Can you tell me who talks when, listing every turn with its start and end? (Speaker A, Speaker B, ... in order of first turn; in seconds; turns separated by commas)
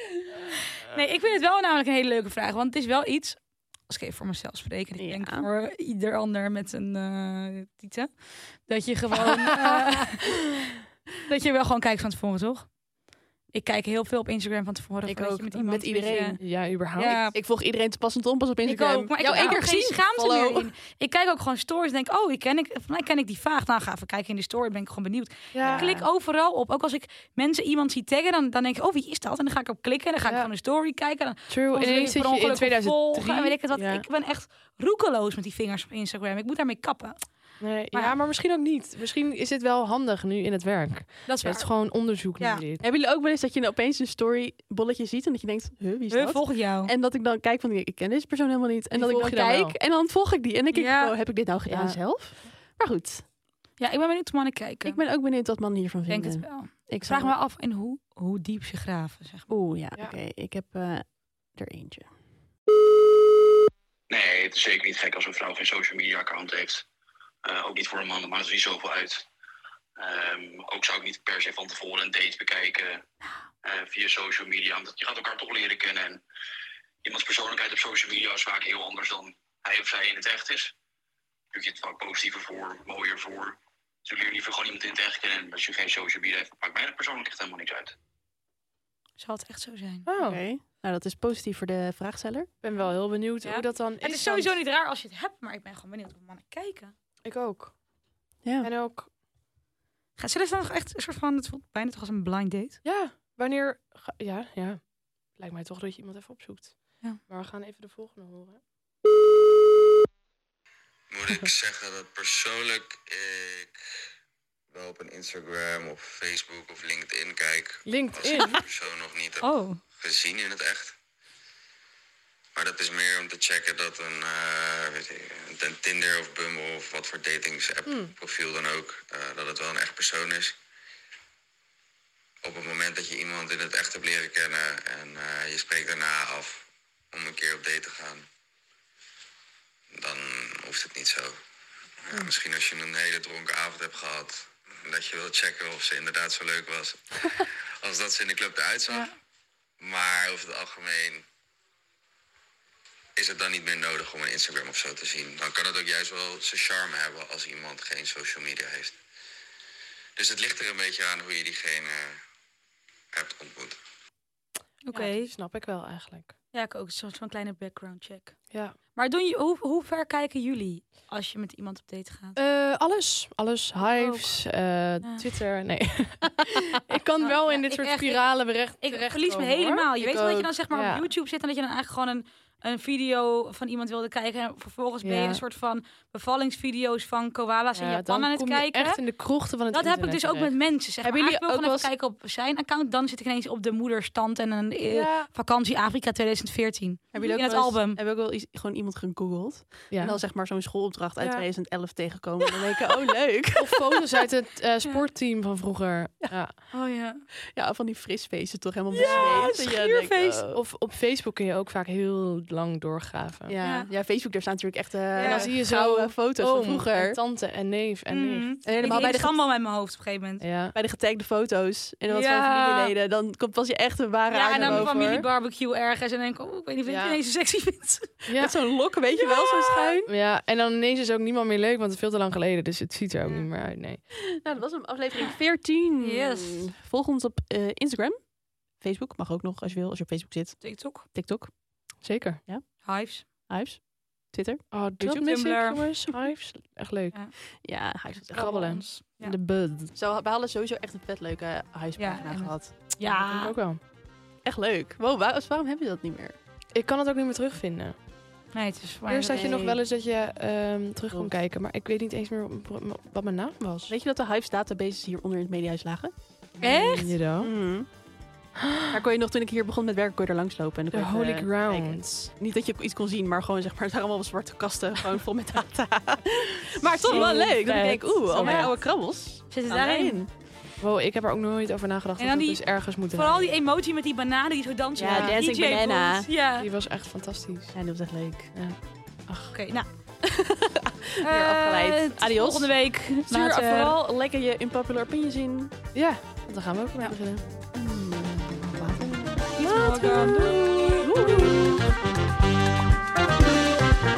Speaker A: 0.8-10.2, Speaker B: 5.0-5.5, Speaker C: 9.3-9.9, Speaker A: 11.2-12.7, Speaker A: 13.5-17.4, Speaker B: 15.1-16.4, Speaker C: 16.4-17.2, Speaker B: 17.3-20.7, Speaker A: 18.6-37.2, Speaker C: 25.5-25.9, Speaker B: 25.6-26.1, Speaker C: 31.5-34.0, Speaker C: 37.6-42.8, Speaker A: 41.2-41.6, Speaker B: 42.8-53.2, Speaker A: 46.1-46.9, Speaker C: 48.9-49.8, Speaker A: 50.7-51.1, Speaker C: 51.7-52.0, Speaker A: 53.8-55.0, Speaker B: 54.8-57.4, Speaker A: 56.1-59.5, Speaker B: 59.5-62.1, Speaker D: 64.1-66.8, Speaker D: 67.4-69.3, Speaker D: 70.0-73.0, Speaker D: 73.6-76.2, Speaker D: 77.0-80.7, Speaker D: 81.5-87.9, Speaker A: 89.2-90.1, Speaker C: 90.0-90.4, Speaker B: 90.2-92.5, Speaker C: 92.6-94.6, Speaker A: 93.4-96.9, Speaker C: 97.2-97.8, Speaker B: 98.4-98.7, Speaker C: 98.6-99.1, Speaker A: 100.2-102.8, Speaker C: 102.8-104.8, Speaker C: 105.3-108.6, Speaker E: 111.1-114.0, Speaker E: 114.7-120.9, Speaker C: 117.8-118.6, Speaker A: 119.4-119.8, Speaker E: 122.5-130.5, Speaker C: 127.9-128.1, Speaker E: 132.4-138.2, Speaker E: 139.9-141.3, Speaker E: 142.1-149.1, Speaker E: 149.8-151.2, Speaker E: 153.2-159.0, Speaker E: 160.2-162.2, Speaker E: 163.1-163.8, Speaker A: 164.8-165.3, Speaker C: 164.9-166.3, Speaker A: 166.5-168.4, Speaker A: 168.9-172.4, Speaker C: 172.3-181.1, Speaker A: 173.8-174.3, Speaker A: 177.2-178.2, Speaker A: 178.8-189.0, Speaker B: 180.0-180.4, Speaker C: 185.0-185.4, Speaker C: 187.7-190.5, Speaker A: 189.7-198.0, Speaker B: 191.0-191.9, Speaker C: 194.9-195.3, Speaker B: 197.1-204.3, Speaker C: 199.9-200.2, Speaker C: 201.2-201.4, Speaker C: 203.6-206.5, Speaker A: 206.7-207.2, Speaker B: 207.5-210.6, Speaker A: 208.9-210.5, Speaker C: 209.0-209.6, Speaker C: 210.5-213.6, Speaker B: 213.5-217.2, Speaker A: 213.6-213.9, Speaker A: 215.1-215.5, Speaker C: 215.2-219.1, Speaker A: 218.1-220.4, Speaker B: 218.6-219.4, Speaker C: 220.4-220.7, Speaker B: 220.7-225.2, Speaker A: 222.1-222.9, Speaker A: 224.3-228.1, Speaker C: 224.6-225.1, Speaker C: 226.8-227.2, Speaker B: 228.3-230.1, Speaker C: 228.3-228.5, Speaker A: 229.3-229.9, Speaker C: 230.1-234.0, Speaker B: 234.2-238.2, Speaker A: 236.0-236.7, Speaker B: 238.8-241.5, Speaker A: 240.6-241.1, Speaker C: 242.0-242.4, Speaker A: 242.8-243.2, Speaker B: 243.2-245.1, Speaker C: 244.7-247.1, Speaker A: 245.0-245.8, Speaker B: 247.6-248.7, Speaker A: 248.2-249.3, Speaker C: 248.3-249.9, Speaker B: 249.9-252.8, Speaker A: 252.0-253.6, Speaker C: 253.0-253.8, Speaker B: 254.4-256.4, Speaker C: 256.7-257.9, Speaker A: 258.5-259.6, Speaker C: 259.1-263.9, Speaker B: 259.3-259.8, Speaker B: 263.9-267.9, Speaker A: 266.6-267.1, Speaker C: 266.8-267.5, Speaker C: 268.6-269.0, Speaker B: 268.9-280.3, Speaker C: 270.9-272.3, Speaker C: 277.0-278.7, Speaker A: 277.1-277.5, Speaker A: 278.3-278.7, Speaker A: 279.5-280.2, Speaker C: 280.8-283.5, Speaker A: 282.2-286.7, Speaker B: 285.0-286.3, Speaker C: 285.1-285.4, Speaker C: 286.6-287.8, Speaker B: 287.7-288.5, Speaker C: 289.3-289.5, Speaker A: 289.5-289.9, Speaker B: 290.2-295.7, Speaker A: 291.2-293.9, Speaker C: 295.9-297.4, Speaker B: 297.0-301.9, Speaker A: 299.6-301.1